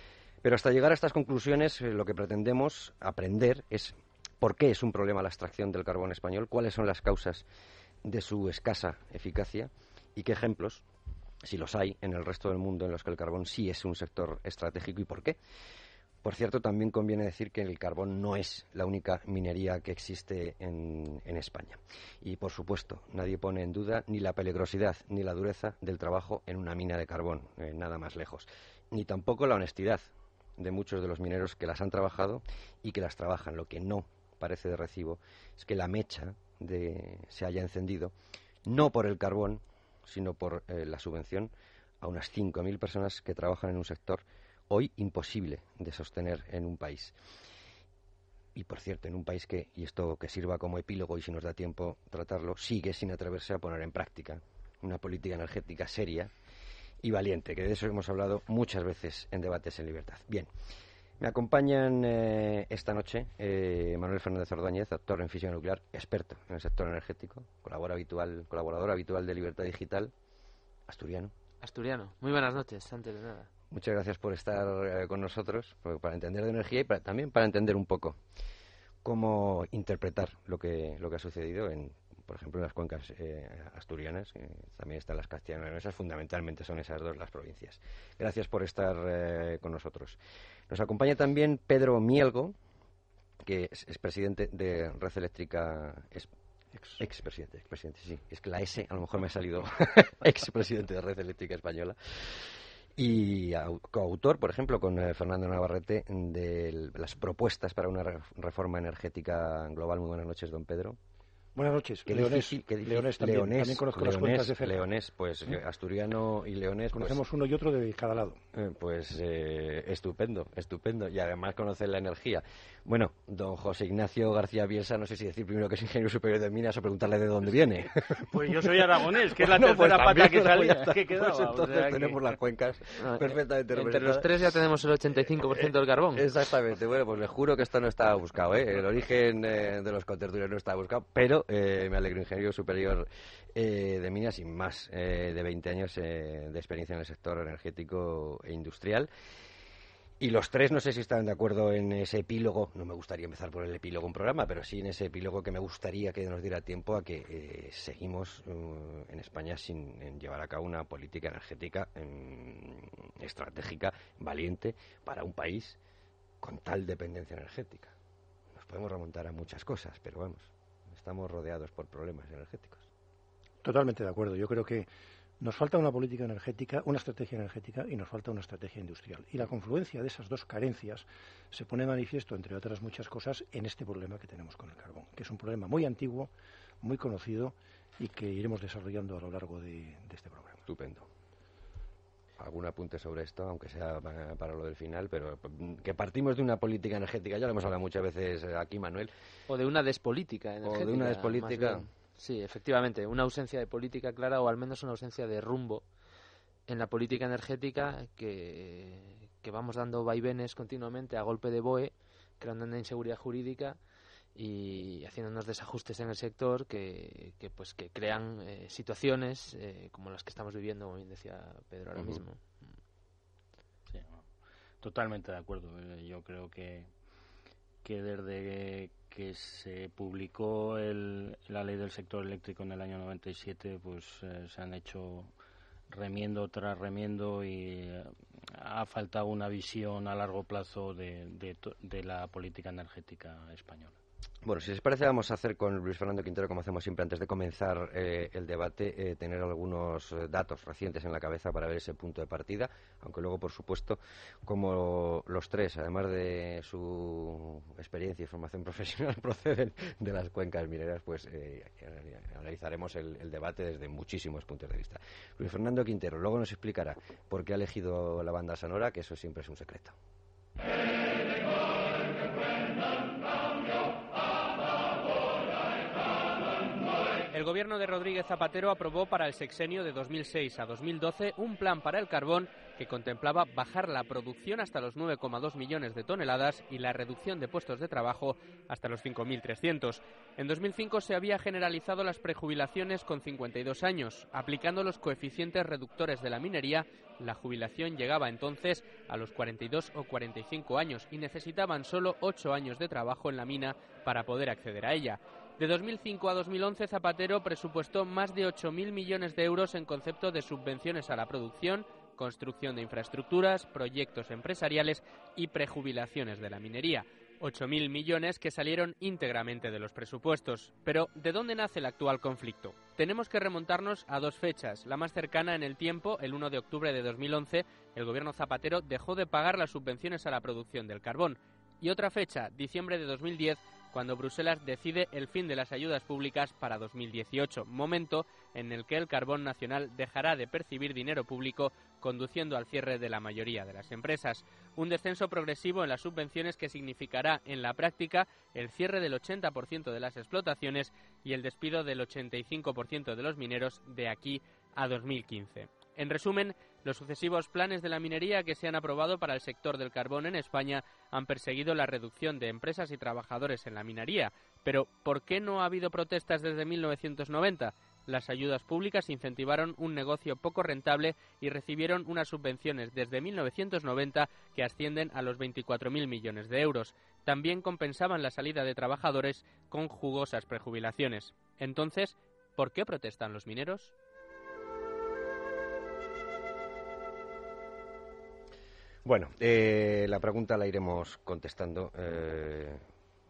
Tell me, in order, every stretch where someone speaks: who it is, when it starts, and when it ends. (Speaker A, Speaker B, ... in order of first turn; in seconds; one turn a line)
Speaker A: 0.4-7.5
Speaker A: 8.0-10.8
Speaker A: 11.4-15.4
Speaker A: 16.2-38.1
Speaker A: 38.7-47.1
Speaker A: 48.5-56.3
Speaker A: 57.0-60.5
Speaker A: 61.2-70.1
Speaker A: 70.9-71.3
Speaker B: 71.6-73.5
Speaker A: 73.7-78.2
Speaker A: 79.0-90.2
Speaker A: 90.7-92.6
Speaker A: 93.4-96.3
Speaker C: 96.7-97.0
Speaker A: 97.0-111.0
Speaker C: 111.5-114.9
Speaker A: 112.1-117.2
Speaker C: 116.9-118.4
Speaker A: 118.5-134.3
Speaker D: 128.3-132.2
Speaker B: 133.0-136.3
Speaker A: 135.5-149.1
Speaker A: 150.2-165.8
Speaker A: 166.4-167.9
Speaker A: 168.5-172.9
Speaker C: 173.6-174.9
Speaker C: 175.4-190.6
Speaker A: 190.7-191.1
Speaker A: 192.4-199.1
Speaker B: 199.5-205.9
Speaker A: 200.6-201.8
Speaker B: 206.7-213.8
Speaker B: 214.4-222.4
Speaker D: 223.9-224.2
Speaker D: 224.8-226.9
Speaker D: 227.8-235.3
Speaker D: 235.9-243.9
Speaker A: 244.4-269.9
Speaker E: 277.3-383.9
Speaker A: 389.1-392.8